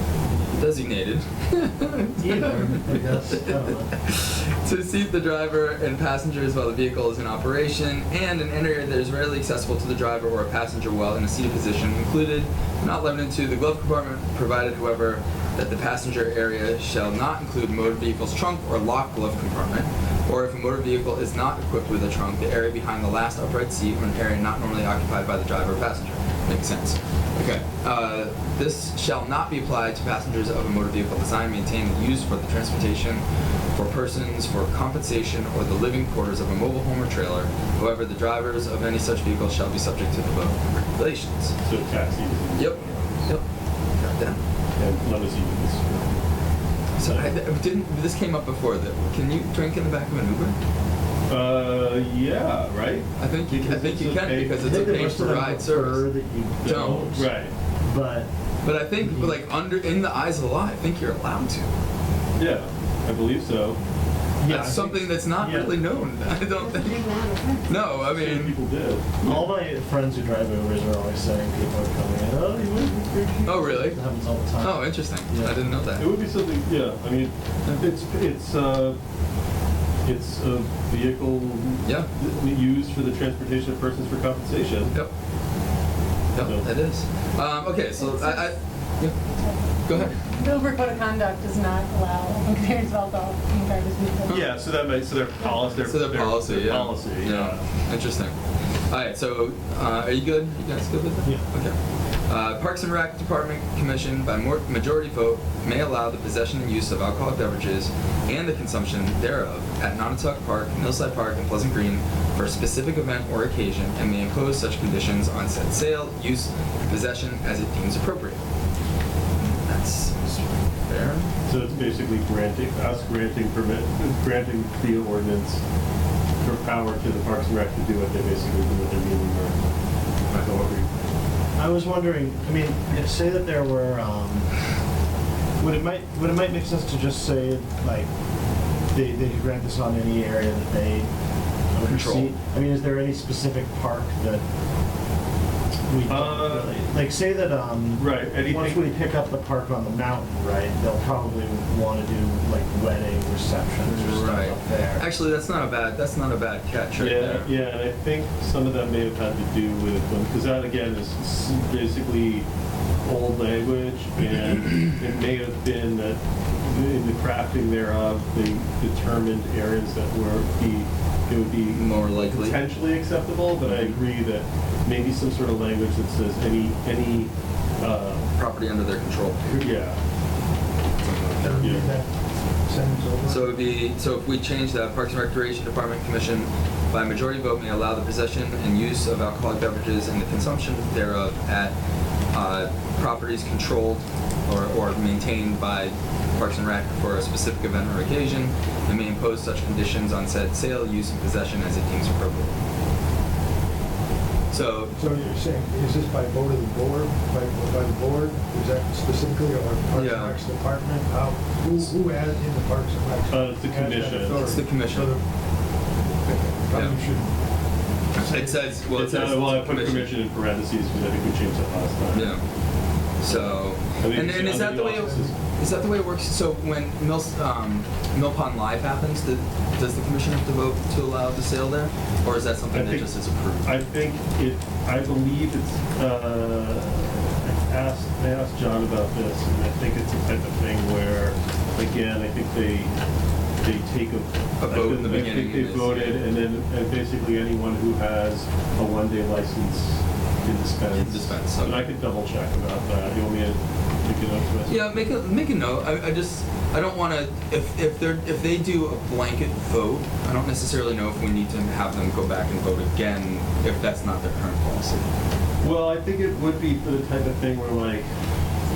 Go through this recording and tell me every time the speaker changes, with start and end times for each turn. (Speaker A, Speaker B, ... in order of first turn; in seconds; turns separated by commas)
Speaker A: 0.5-33.2, Speaker B: 2.2-3.9, Speaker A: 33.7-41.5, Speaker C: 41.6-43.3, Speaker A: 42.5-43.4, Speaker A: 44.0-44.4, Speaker C: 44.8-46.2, Speaker A: 47.0-50.6, Speaker C: 47.0-47.3, Speaker C: 51.3-55.1, Speaker A: 53.2-56.1, Speaker B: 54.6-57.2, Speaker C: 56.6-57.5, Speaker A: 56.6-57.3, Speaker B: 57.9-58.3, Speaker A: 58.6-61.7, Speaker B: 59.0-59.4, Speaker C: 62.4-63.8, Speaker B: 64.4-65.8, Speaker A: 64.5-68.6, Speaker D: 67.1-67.6, Speaker C: 67.8-69.4, Speaker B: 69.2-75.7, Speaker A: 73.5-74.0, Speaker A: 74.6-76.0, Speaker C: 76.0-79.0, Speaker C: 80.0-84.9, Speaker A: 81.8-82.1, Speaker A: 86.3-89.2, Speaker D: 88.0-88.5, Speaker D: 89.4-94.5, Speaker A: 89.8-90.2, Speaker C: 94.3-97.6, Speaker A: 95.8-98.3, Speaker A: 98.9-101.8, Speaker A: 102.3-118.4, Speaker A: 119.4-121.3, Speaker C: 121.5-125.6, Speaker C: 126.4-129.6, Speaker C: 130.3-130.9, Speaker B: 131.6-134.5, Speaker B: 135.6-138.1, Speaker B: 138.9-141.1, Speaker B: 141.7-144.4, Speaker A: 141.8-142.3, Speaker B: 145.9-155.0, Speaker C: 146.1-146.9, Speaker C: 148.0-149.1, Speaker A: 153.8-157.5, Speaker C: 157.0-162.5, Speaker C: 163.0-178.3, Speaker A: 171.7-172.6, Speaker A: 173.6-174.0, Speaker A: 178.4-179.6, Speaker C: 179.5-180.0, Speaker A: 181.0-181.8, Speaker E: 181.4-182.1, Speaker C: 181.5-181.9, Speaker E: 182.7-183.6, Speaker A: 183.3-191.8, Speaker A: 192.3-202.6, Speaker A: 204.5-204.9, Speaker E: 204.9-215.2, Speaker A: 209.9-210.4, Speaker C: 213.3-214.6, Speaker A: 214.4-215.2, Speaker E: 216.3-217.3, Speaker A: 218.2-220.2, Speaker E: 218.2-218.7, Speaker C: 218.9-222.4, Speaker A: 222.1-222.4, Speaker A: 223.2-233.7, Speaker C: 223.3-225.3, Speaker C: 232.7-233.1, Speaker C: 233.6-242.9, Speaker C: 243.6-254.9, Speaker A: 244.6-246.2, Speaker A: 250.9-251.9, Speaker A: 254.7-265.1, Speaker C: 265.6-268.1